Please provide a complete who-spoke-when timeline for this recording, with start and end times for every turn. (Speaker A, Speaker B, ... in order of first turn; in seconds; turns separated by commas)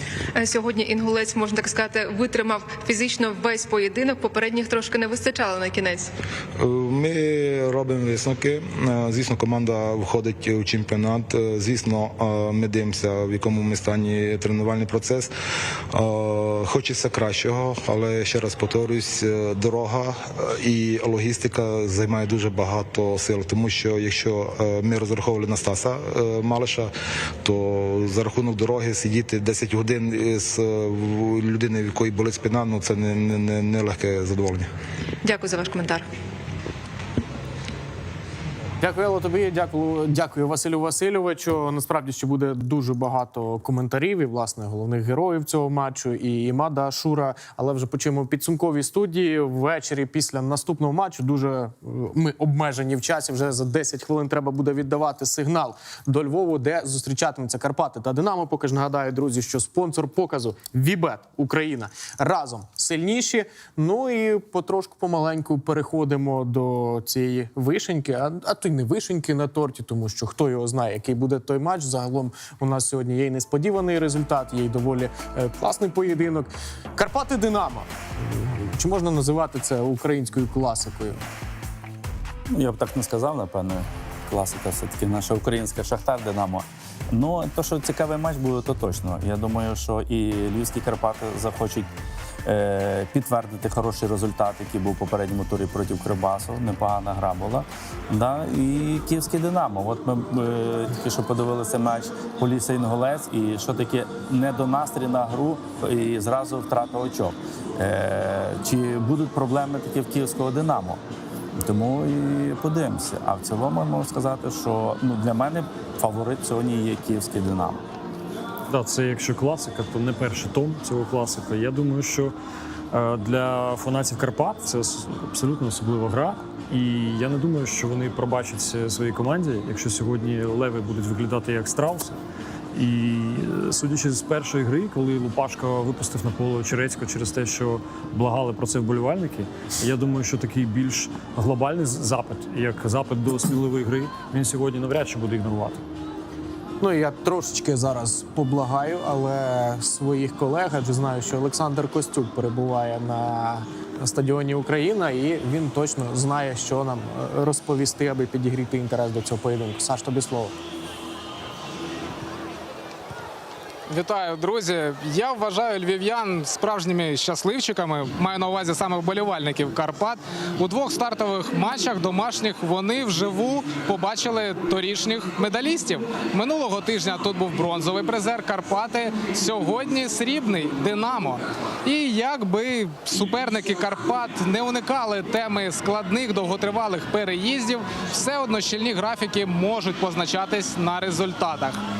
Speaker A: 0.3-6.1, Speaker B: 6.6-15.3, Speaker B: 15.9-26.9, Speaker B: 27.4-34.7, Speaker A: 35.2-36.0, Speaker C: 38.8-81.2, Speaker D: 82.5-91.9, Speaker D: 92.4-111.0, Speaker D: 111.6-117.8, Speaker E: 118.7-122.3, Speaker E: 122.9-132.2, Speaker E: 132.7-145.8, Speaker C: 146.8-160.5, Speaker F: 163.9-191.8